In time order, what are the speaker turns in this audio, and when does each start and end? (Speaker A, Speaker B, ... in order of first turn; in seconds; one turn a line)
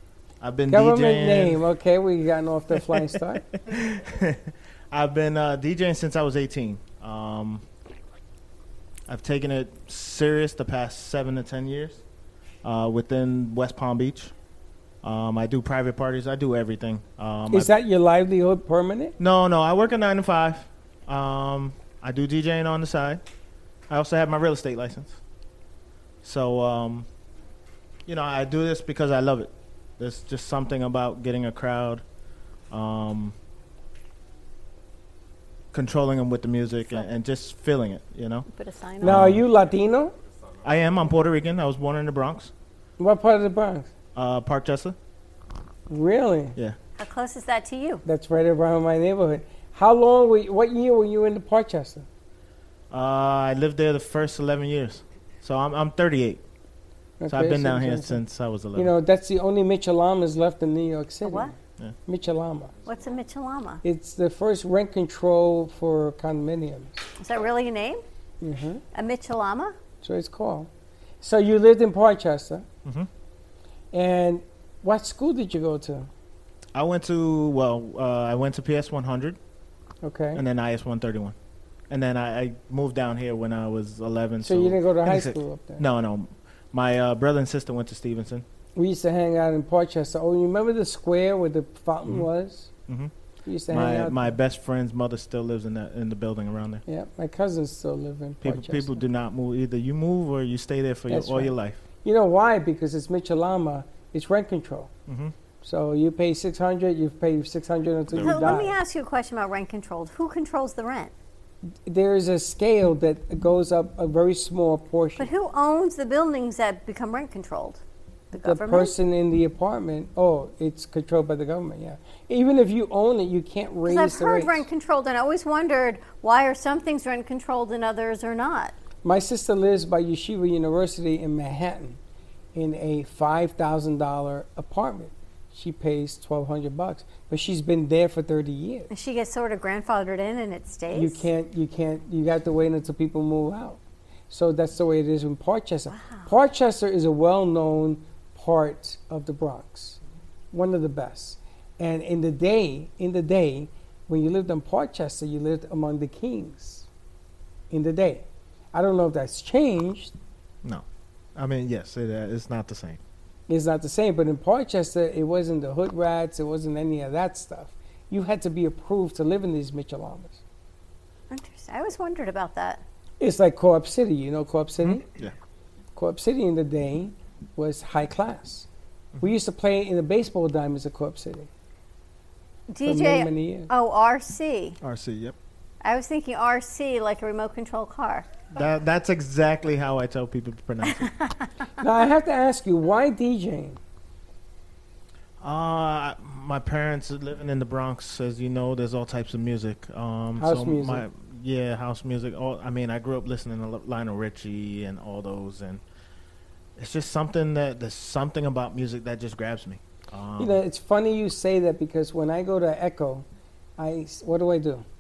Speaker A: 0.4-1.6
Speaker B: 0.7-3.5
Speaker A: 3.6-7.6
Speaker A: 9.1-12.0
Speaker A: 12.6-14.3
Speaker A: 15.0-17.7
Speaker B: 17.5-19.2
Speaker A: 19.2-23.2
Speaker A: 23.9-25.2
Speaker A: 26.2-27.1
Speaker A: 28.1-32.0
Speaker A: 32.7-33.4
Speaker A: 35.7-38.5
Speaker C: 38.5-39.2
Speaker B: 39.0-40.1
Speaker A: 39.0-39.5
Speaker A: 40.6-42.5
Speaker B: 43.0-43.9
Speaker A: 44.1-45.0
Speaker B: 45.9-46.6
Speaker C: 47.0-48.0
Speaker B: 48.1-52.1
Speaker A: 52.9-56.4
Speaker B: 57.2-58.2
Speaker A: 57.3-59.0
Speaker B: 58.8-62.7
Speaker C: 61.2-61.5
Speaker C: 62.9-63.8
Speaker B: 63.8-67.0
Speaker C: 67.2-68.0
Speaker B: 68.4-68.8
Speaker C: 68.9-69.8
Speaker B: 70.0-70.7
Speaker B: 71.2-72.7
Speaker B: 73.9-76.1
Speaker A: 76.8-79.4
Speaker B: 80.0-80.4
Speaker A: 80.3-81.3
Speaker A: 81.9-88.5
Speaker B: 84.4-85.9
Speaker B: 88.8-92.7
Speaker B: 93.5-94.4
Speaker A: 93.7-96.8
Speaker B: 96.9-99.0
Speaker A: 98.4-101.8
Speaker B: 101.1-104.9
Speaker A: 105.1-105.3
Speaker B: 105.6-108.8
Speaker A: 108.1-108.5
Speaker C: 108.2-111.1
Speaker B: 111.9-115.3
Speaker C: 115.2-117.8
Speaker C: 118.3-118.9
Speaker B: 118.4-124.7
Speaker C: 123.9-128.7
Speaker B: 129.0-132.0
Speaker B: 132.6-138.9
Speaker C: 138.9-141.2
Speaker B: 140.9-143.8
Speaker B: 144.3-150.0
Speaker C: 145.9-146.3
Speaker B: 150.5-156.9
Speaker B: 157.7-160.2
Speaker A: 161.4-163.0
Speaker B: 163.5-170.4
Speaker C: 171.3-172.8
Speaker B: 173.2-175.0
Speaker A: 174.8-175.3
Speaker B: 176.0-178.7
Speaker B: 179.2-181.5
Speaker C: 182.7-184.8
Speaker B: 182.8-183.7
Speaker A: 184.8-185.3
Speaker C: 185.8-188.2
Speaker A: 188.5-191.2
Speaker B: 191.8-193.8
Speaker A: 195.4-205.8
Speaker B: 200.4-201.1
Speaker A: 206.8-210.6
Speaker B: 210.4-213.3
Speaker B: 213.8-214.8